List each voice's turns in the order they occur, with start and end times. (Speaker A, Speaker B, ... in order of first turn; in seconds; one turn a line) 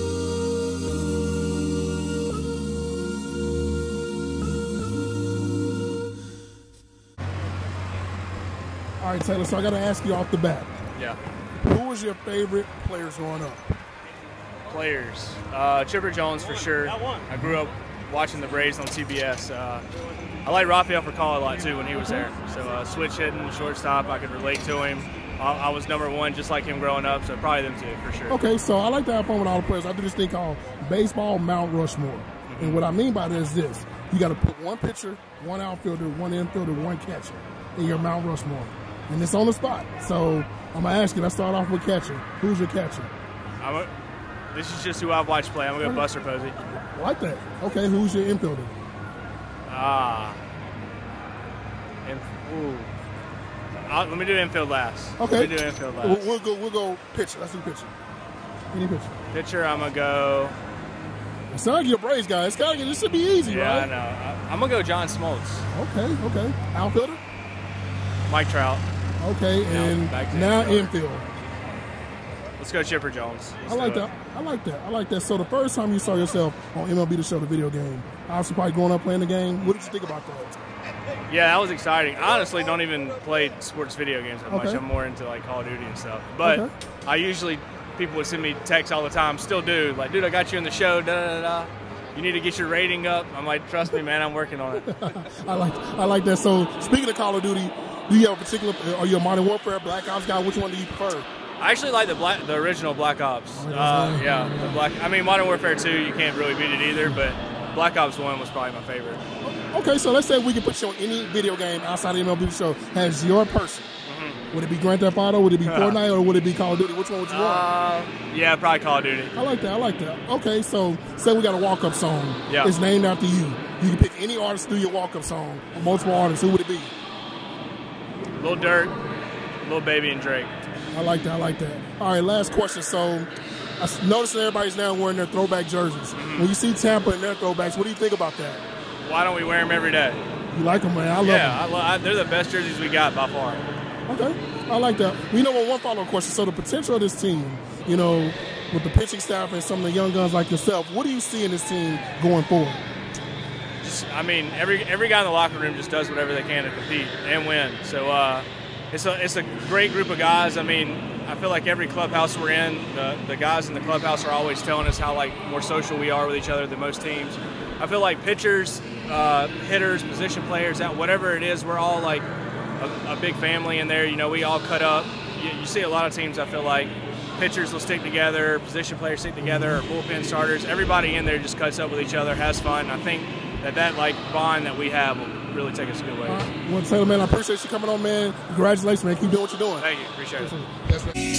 Speaker A: 9.0-10.7
Speaker A: 11.6-13.7
Speaker B: 14.7-19.8
Speaker B: 20.4-28.4
Speaker A: 28.3-43.1
Speaker B: 32.5-32.9
Speaker B: 43.6-43.9
Speaker B: 44.5-46.5
Speaker A: 46.9-48.8
Speaker B: 49.7-50.4
Speaker B: 52.0-52.9
Speaker B: 53.9-56.2
Speaker A: 55.2-57.9
Speaker A: 58.7-59.1
Speaker B: 59.3-60.6
Speaker A: 61.5-63.9
Speaker B: 63.4-65.7
Speaker A: 65.7-67.2
Speaker B: 68.3-68.8
Speaker A: 69.2-71.2
Speaker B: 69.7-70.9
Speaker B: 72.6-74.0
Speaker A: 73.7-80.6
Speaker B: 81.3-95.1
Speaker A: 84.5-84.8
Speaker A: 86.4-86.7
Speaker A: 94.8-101.3
Speaker B: 101.6-109.2
Speaker A: 103.6-104.8
Speaker A: 109.4-113.9
Speaker B: 114.1-114.4
Speaker A: 114.5-117.7
Speaker B: 115.7-116.0
Speaker B: 117.3-119.3
Speaker A: 119.3-126.9
Speaker B: 122.5-122.7
Speaker B: 128.4-129.0
Speaker B: 129.6-130.5
Speaker A: 130.9-138.6
Speaker B: 136.1-136.5
Speaker B: 139.0-140.2
Speaker A: 140.5-141.6
Speaker B: 141.2-143.7
Speaker A: 144.1-152.8
Speaker B: 153.8-172.3
Speaker B: 172.8-186.5
Speaker A: 179.4-179.8
Speaker A: 186.3-191.2
Speaker B: 189.8-190.5